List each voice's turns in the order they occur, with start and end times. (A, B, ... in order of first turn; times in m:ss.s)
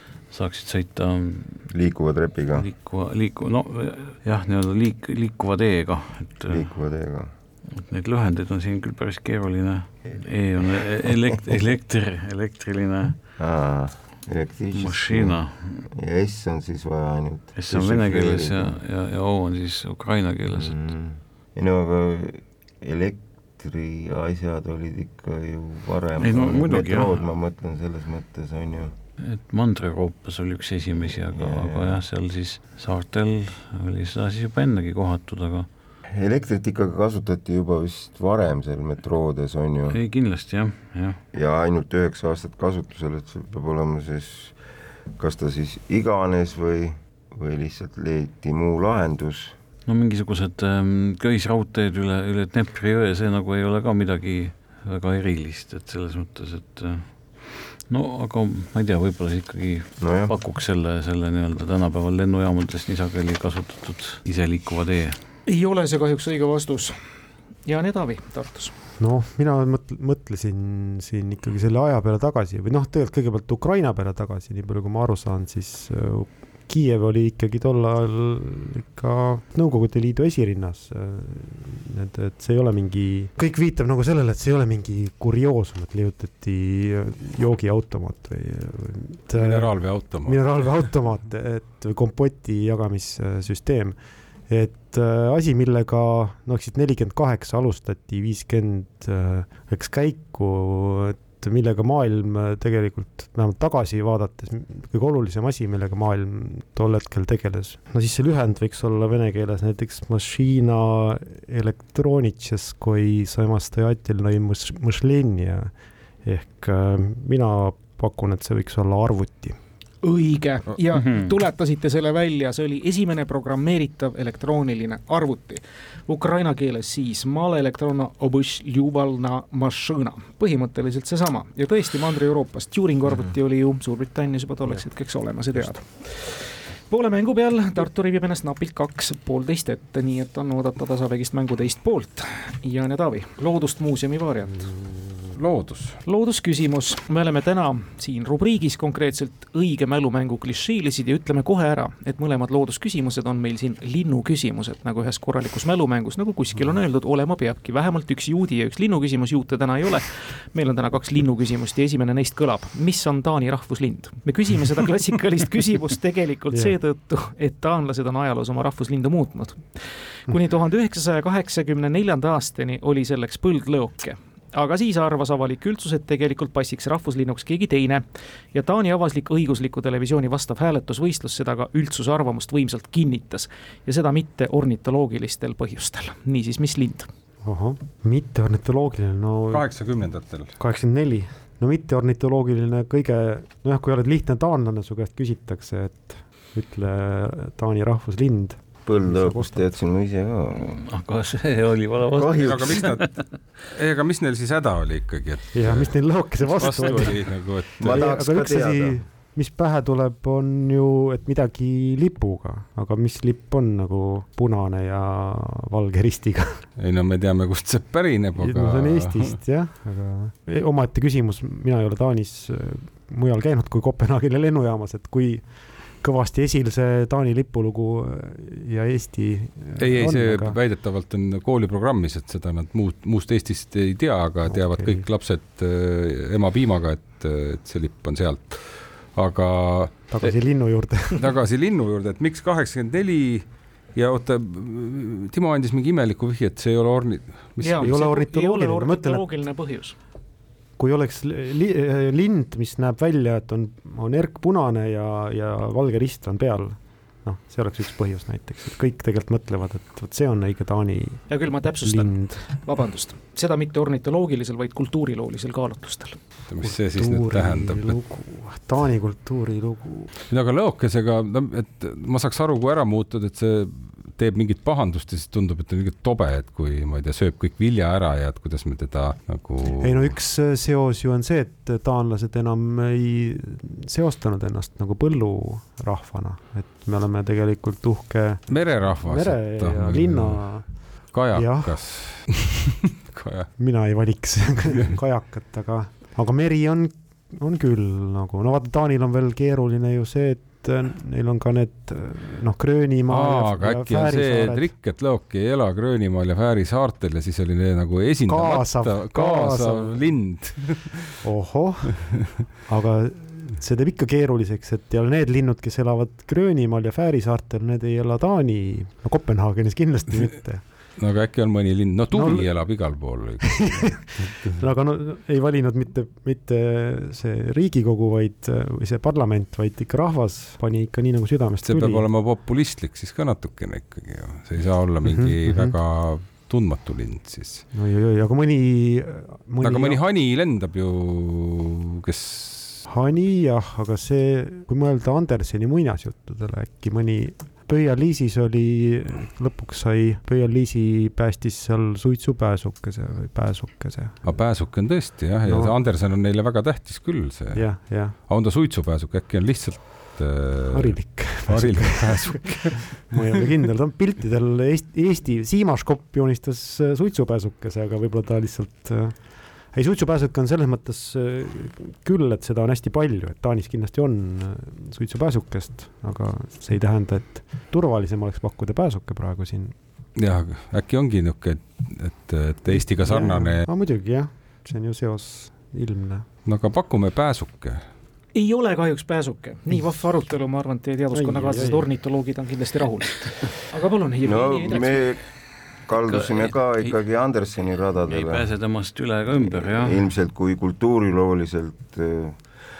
0:00.3-0:01.7 A
0:01.7-0:02.7 B
0:02.6-0:06.7 A
0:06.5-0:07.3 B
0:07.7-0:13.2 A
0:13.4-0:15.4 B
0:14.7-0:15.9 A
0:15.9-0:18.8 B
0:17.6-0:20.8 A
0:20.5-0:29.0 B
0:26.2-0:27.2 A
0:29.2-0:35.7 A
0:31.3-0:32.0 B
0:36.1-0:40.0 B
0:39.9-0:41.2 A
0:41.3-0:44.6 B
0:45.2-0:49.6 B
0:49.9-1:05.2 A
1:00.0-1:00.3 B
1:05.5-1:07.0 C
1:07.7-1:08.7 C
1:09.0-1:59.6 D
1:29.3-1:30.6 E
2:00.0-2:24.7 C
2:01.0-2:01.3 A
2:25.3-2:26.0 E
2:26.0-3:07.1 C
3:07.4-3:09.7 D
3:09.5-3:10.6 E
3:10.6-3:19.7 D
3:18.8-3:20.8 B
3:20.6-3:23.3 A
3:22.1-3:22.9 B
3:22.4-3:23.0 E
3:23.7-3:28.2 E
3:25.5-3:36.6 D
3:27.8-3:29.0 B
3:36.8-3:39.4 E
3:38.4-3:50.6 D
3:49.8-4:00.3 E
3:54.5-3:55.0 D
4:00.1-4:01.2 D
4:01.1-4:08.0 E
4:07.6-4:10.0 C
4:07.8-4:09.2 D
4:10.8-4:22.4 D
4:21.3-4:26.2 C
4:26.5-4:28.0 E
4:26.6-4:30.1 D
4:30.3-4:40.1 E
4:39.8-4:52.3 D
4:48.5-4:53.5 E
4:53.6-5:04.7 D
5:03.1-5:11.2 E
5:08.3-5:10.0 D
5:11.2-5:20.6 D
5:21.0-5:24.6 E
5:22.1-5:32.1 D
5:31.6-5:37.6 E
5:35.0-5:35.8 D
5:37.7-5:40.0 D
5:39.6-5:42.8 E
5:42.9-5:55.8 D
5:54.2-6:03.1 E
5:57.5-5:58.2 D
6:00.7-6:19.8 D
6:20.2-6:23.7 E
6:22.7-6:26.3 D
6:26.5-6:27.8 E
6:28.3-6:35.1 C
6:31.1-6:31.9 D
6:34.2-6:35.2 B
6:35.9-6:38.5 B
6:36.0-6:37.0 A
6:38.1-6:40.1 A
6:39.3-6:42.4 B